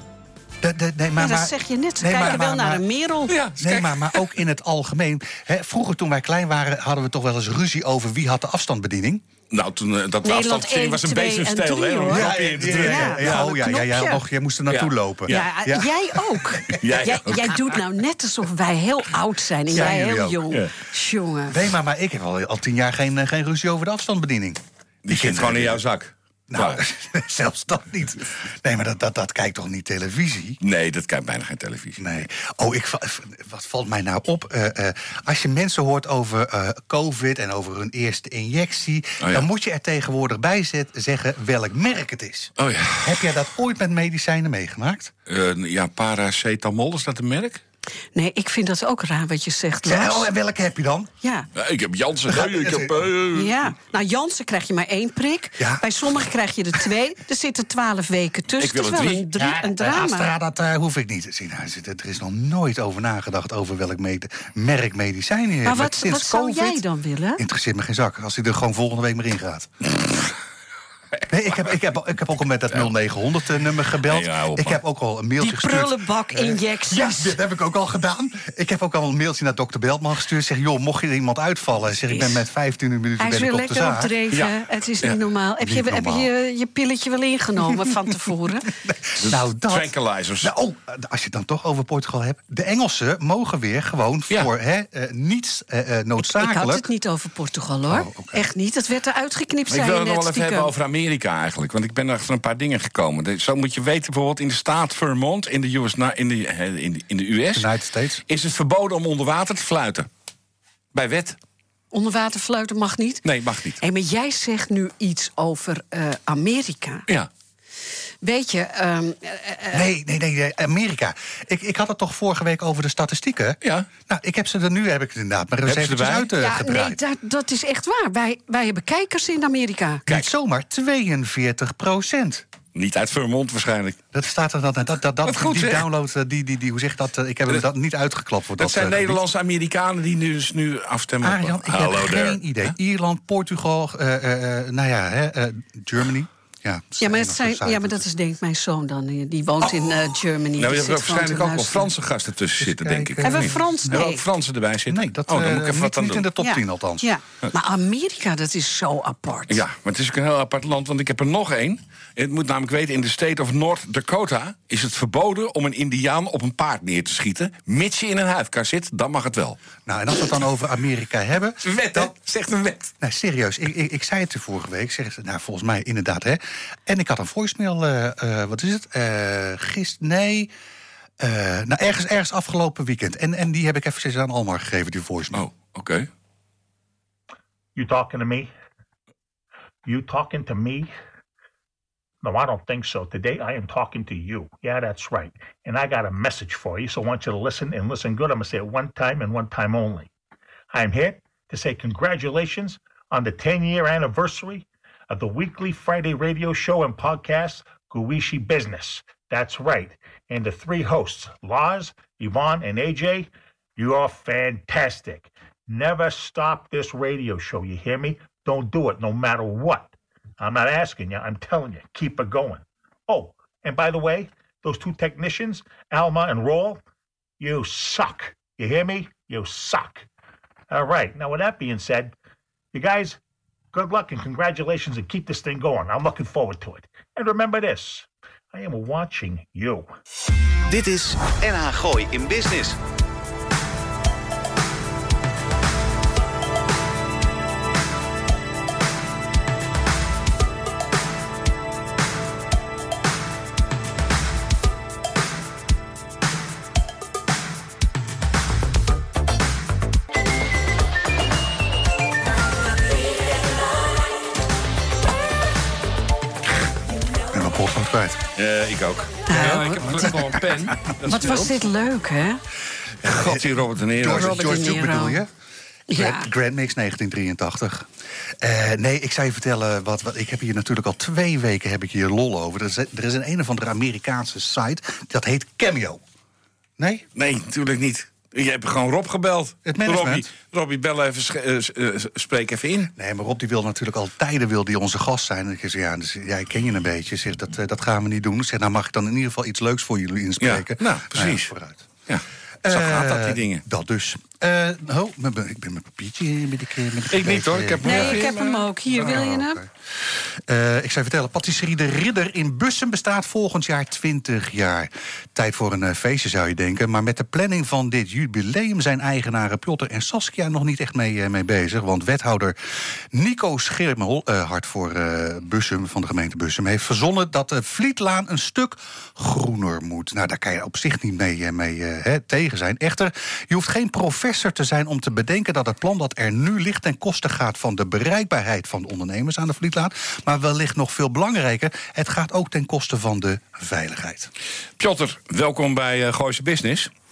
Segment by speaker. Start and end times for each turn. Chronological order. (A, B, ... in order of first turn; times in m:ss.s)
0:00.6-0:02.8 A
0:01.2-0:03.4 B
0:03.3-0:04.3 C
0:03.6-0:09.2 A
0:09.5-0:13.4 C
0:10.2-0:14.2 B
0:12.1-0:16.8 A
0:14.7-0:15.5 C
0:15.3-0:21.6 B
0:16.7-0:17.8 C
0:19.7-0:20.5 A
0:19.7-0:20.7 C
0:21.5-0:25.8 A
0:25.0-0:26.8 C
0:26.5-0:30.6 A
0:30.6-0:32.1 C
0:32.0-0:45.1 A
0:39.2-0:39.5 C
0:42.6-0:43.4 C
0:45.3-0:47.6 C
0:48.2-0:50.3 B
0:49.9-0:51.1 A
0:51.2-0:51.5 B
0:51.6-0:53.6 C
0:52.3-0:53.1 A
0:53.3-1:00.3 B
0:55.6-0:55.9 A
0:58.6-0:59.2 C
0:59.4-1:06.8 A
1:05.6-1:07.4 B
1:07.4-1:10.0 A
1:11.3-1:24.2 A
1:14.0-1:14.8 C
1:15.4-1:17.4 B
1:22.1-1:22.4 B
1:23.2-1:28.7 B
1:24.3-1:25.2 C
1:25.6-1:26.3 A
1:28.8-1:36.9 A
1:29.2-1:30.5 C
1:36.2-1:40.7 B
1:37.9-1:38.4 A
1:39.7-1:47.7 C
1:47.5-1:48.2 A
1:48.3-1:50.1 C
1:50.9-1:51.4 C
1:51.9-1:53.2 B
1:53.2-1:53.8 C
1:53.8-1:57.1 B
1:58.2-1:59.9 B
1:59.7-2:07.0 A
2:03.6-2:03.9 C
2:05.7-2:06.3 C
2:06.4-2:10.0 B
2:10.1-2:12.4 A
2:12.8-2:14.0 C
2:14.1-2:19.2 A
2:15.2-2:15.9 C
2:18.6-2:22.7 C
2:21.2-2:28.0 A
2:27.0-2:31.9 B
2:30.6-2:36.2 C
2:32.6-2:34.0 A
2:33.2-2:34.2 B
2:34.9-2:37.1 A
2:36.4-2:39.6 B
2:39.5-2:49.6 C
2:49.9-2:52.1 A
2:51.6-2:52.9 C
2:53.0-3:00.5 A
3:01.2-3:05.4 A
3:05.3-3:06.1 C
3:07.8-3:08.5 D
3:09.8-3:10.9 D
3:12.2-3:20.1 D
3:20.7-3:46.8 D
3:47.4-3:50.1 D
3:50.7-3:52.1 D
3:52.7-3:53.2 D
3:53.7-3:59.9 D
4:00.7-4:02.8 E
4:27.3-4:28.2 A
4:28.4-4:31.7 C
4:29.3-4:30.1 B
4:29.4-4:30.7 A
4:31.1-4:32.4 B
4:33.0-4:34.7 C
4:33.0-4:35.3 A
4:34.1-4:35.2 B
4:35.9-4:36.3 B
4:35.9-4:37.9 A
4:38.4-4:46.0 A
4:46.8-4:47.1 A
4:47.2-4:52.9 C
4:49.6-4:50.3 A
4:53.0-5:01.9 A
5:00.4-5:01.5 C
5:02.1-5:03.6 C
5:02.6-5:08.4 A
5:07.1-5:09.2 C
5:07.8-5:09.6 B
5:08.9-5:22.6 A
5:23.1-5:44.3 A
5:44.8-5:46.9 C